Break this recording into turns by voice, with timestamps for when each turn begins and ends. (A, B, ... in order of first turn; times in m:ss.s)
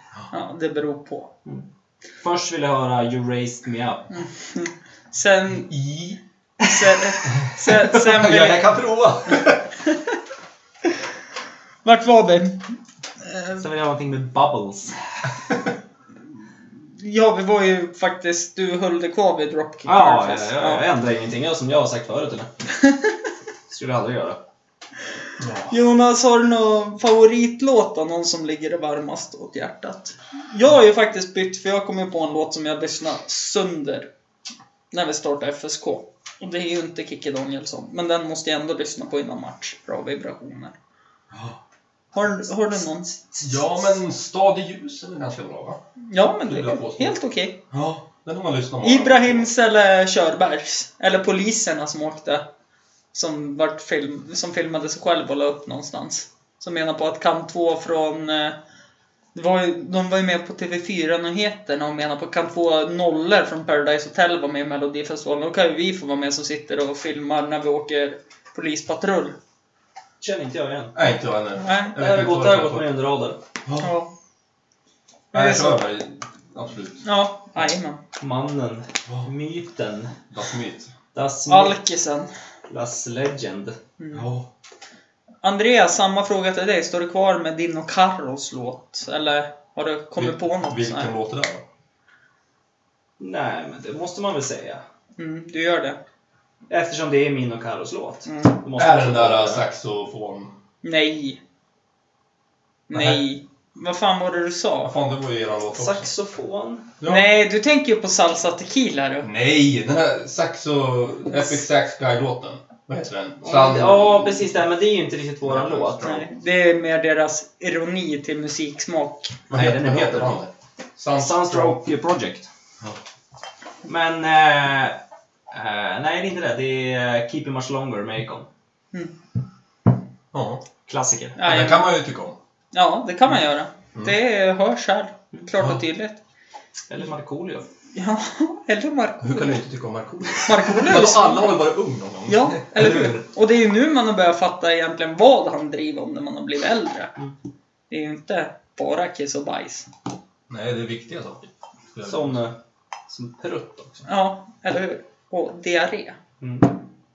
0:00.3-0:01.3 A
0:02.2-0:04.1 B
0:04.1-0:05.7 A
0:05.7-0:06.2 C
0:06.7-0:08.8 A
0:07.5-0:09.8 C
0:11.8-0:12.7 A
0:13.2-0:13.6 A
0:13.6-0:15.3 B
0:17.0-0:20.8 A
0:19.8-0:22.5 B
0:23.7-0:24.4 B
0:25.4-0:25.7 C
0:25.7-0:34.1 A
0:34.9-0:40.8 A
0:42.1-0:43.2 A
0:43.4-0:45.8 C
0:46.1-0:47.6 A
0:46.4-0:47.2 C
0:47.7-0:49.5 C
0:48.8-0:52.5 A
0:53.1-0:58.6 A
0:59.3-1:09.4 A
1:10.2-1:10.9 B
1:11.0-1:12.9 C
1:11.6-1:12.0 A
1:12.0-1:13.4 B
1:13.8-1:14.1 A
1:15.3-1:15.8 A
1:15.3-1:17.0 C
1:17.0-1:18.0 A
1:18.2-1:20.1 B
1:20.3-1:20.9 C
1:21.1-1:21.8 B
1:21.5-1:22.3 A
1:22.7-1:23.8 B
1:24.0-1:24.3 A
1:24.1-1:24.5 C
1:25.4-1:31.1 A
1:30.2-1:31.6 C
1:33.2-1:34.8 B
1:35.2-1:36.0 A
1:36.7-1:39.6 B
1:38.3-1:38.6 A
1:38.8-1:40.6 C
1:40.8-1:41.4 A
1:42.9-1:44.9 A
1:42.9-1:43.2 C
1:44.8-1:46.1 C
1:45.7-1:46.9 B
1:47.0-1:47.3 C
1:47.0-1:49.3 A
1:49.2-1:54.6 C
1:51.3-1:51.6 A
1:53.4-1:56.1 B
1:55.4-1:56.3 C
1:56.0-1:59.4 A
1:59.5-2:00.4 B
1:59.5-2:01.8 C
2:01.2-2:02.5 B
2:03.8-2:05.0 B
2:05.5-2:08.5 B
2:10.3-2:10.6 C
2:10.9-2:11.4 B
2:11.4-2:11.9 A
2:11.4-2:12.4 C
2:12.7-2:16.2 A
2:16.9-2:17.7 B
2:17.9-2:19.5 A
2:19.2-2:23.3 C
2:20.4-2:21.6 A
2:22.3-2:27.1 A
2:27.9-2:29.9 A
2:30.5-2:32.4 C
2:32.0-2:32.6 B
2:33.1-2:34.0 B
2:34.1-2:36.2 A
2:36.4-2:36.8 B